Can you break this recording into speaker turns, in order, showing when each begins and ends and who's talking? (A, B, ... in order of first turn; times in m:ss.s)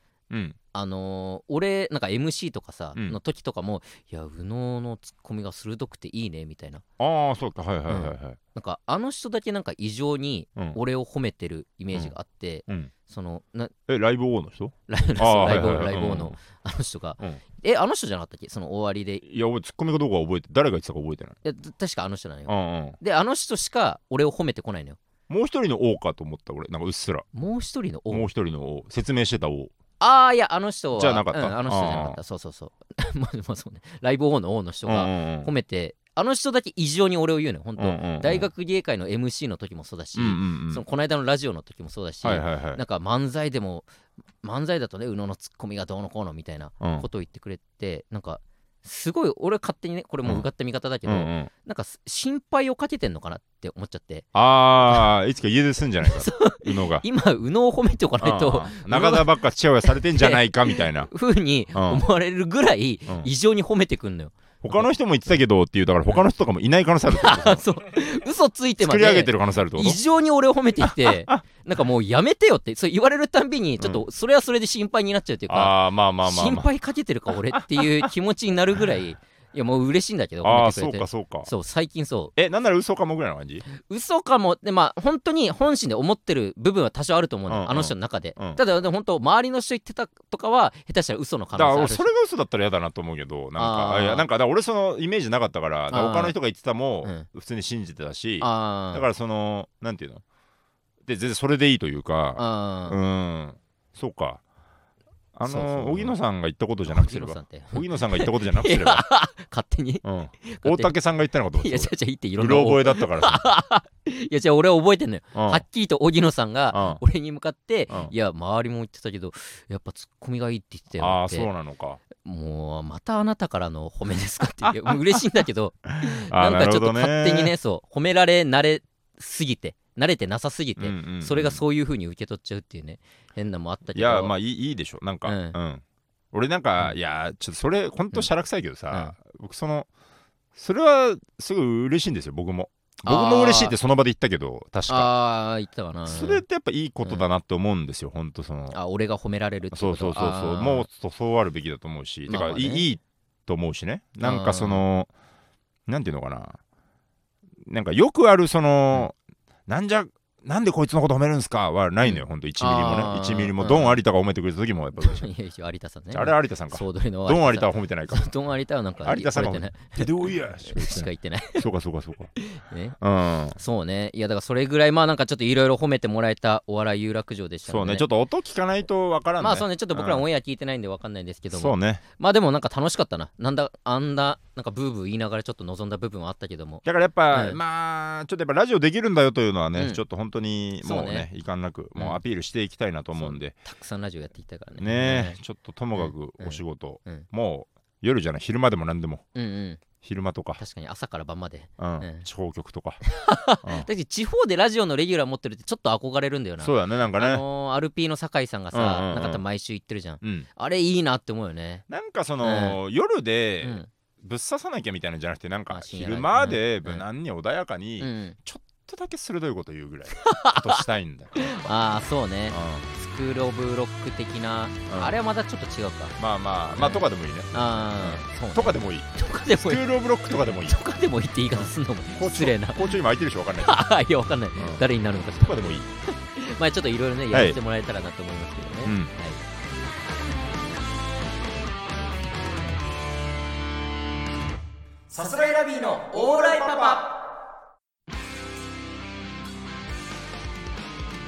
0:00.3-0:00.6 A
0:00.7-0:06.8 B
0:07.0-0:08.4 A
0:07.9-0:13.7 B
0:13.9-0:16.4 A
0:14.9-0:19.2 B
0:19.2-0:21.4 A
0:21.4-0:25.0 B
0:22.5-0:23.0 A
0:25.3-0:27.3 A
0:27.3-0:28.3 B
0:28.1-0:29.7 A
0:30.0-0:43.9 B
0:30.9-0:32.2 A
0:34.8-0:35.5 A
0:37.8-0:38.5 A
0:40.1-0:40.8 A
0:42.2-0:42.8 A
0:44.4-0:55.1 B
0:46.8-0:47.0 A
0:51.0-0:51.5 A
0:54.3-0:57.0 A
0:56.0-1:04.9 B
0:58.2-1:01.1 A
1:01.7-1:02.0 A
1:04.6-1:07.6 A
1:07.1-1:22.3 B
1:08.8-1:10.0 A
1:10.8-1:11.4 A
1:15.5-1:16.7 A
1:17.3-1:18.1 A
1:20.4-1:21.5 A
1:22.4-1:23.6 A
1:23.7-1:32.1 B
1:27.5-1:28.6 A
1:31.6-1:40.2 A
1:33.6-1:34.2 B
1:35.9-1:36.3 B
1:38.4-1:39.1 B
1:41.0-1:44.4 A
1:42.4-1:43.0 B
1:45.3-1:49.0 A
1:45.4-1:46.2 B
1:46.9-1:50.9 B
1:50.0-1:53.4 A
1:51.6-2:01.5 B
1:55.3-1:55.6 A
1:56.7-1:57.0 A
2:01.0-2:02.0 A
2:02.1-2:14.3 B
2:04.6-2:05.2 A
2:05.9-2:07.5 A
2:10.8-2:11.6 A
2:13.9-2:19.9 A
2:15.2-2:15.6 B
2:20.5-2:25.1 A
2:23.0-2:23.8 B
2:24.9-2:26.4 B
2:26.0-2:28.8 A
2:28.7-2:30.9 B
2:29.7-2:35.1 A
2:32.3-2:32.9 B
2:34.2-2:34.8 B
2:35.9-2:36.6 A
2:37.6-2:39.2 A
2:39.7-2:45.3 A
2:42.0-2:44.0 B
2:45.0-2:51.6 B
2:46.1-2:48.3 A
2:49.0-2:52.3 A
2:52.4-2:53.0 B
2:53.0-2:53.6 A
2:53.5-2:58.0 B
2:57.7-3:00.2 A
2:59.4-3:07.6 B
3:01.5-3:02.0 A
3:06.8-3:13.6 A
3:09.8-3:10.0 B
3:10.8-3:11.3 B
3:13.1-3:15.4 B
3:14.8-3:19.2 A
3:15.9-3:17.2 B
3:19.3-3:19.8 B
3:20.0-3:20.6 A
3:20.6-3:22.2 B
3:21.8-3:23.0 A
3:23.0-3:31.8 B
3:26.6-3:27.4 A
3:28.7-3:29.4 A
3:30.2-3:30.5 A
3:31.9-3:41.6 A
3:32.4-3:32.8 B
3:33.6-3:33.9 B
3:35.7-3:37.0 B
3:38.0-3:38.4 B
3:40.1-3:40.8 B
3:41.4-3:46.2 B
3:42.5-3:42.9 A
3:44.9-3:45.2 A
3:46.2-3:50.7 A
3:46.7-3:49.8 B
3:50.5-3:52.9 B
3:51.5-3:53.8 A
3:53.6-3:59.4 B
3:54.6-3:54.8 A
3:55.4-3:55.9 A
3:57.3-3:57.6 A
3:58.8-3:59.1 A
4:05.1-4:07.0 A
4:05.2-4:07.0 B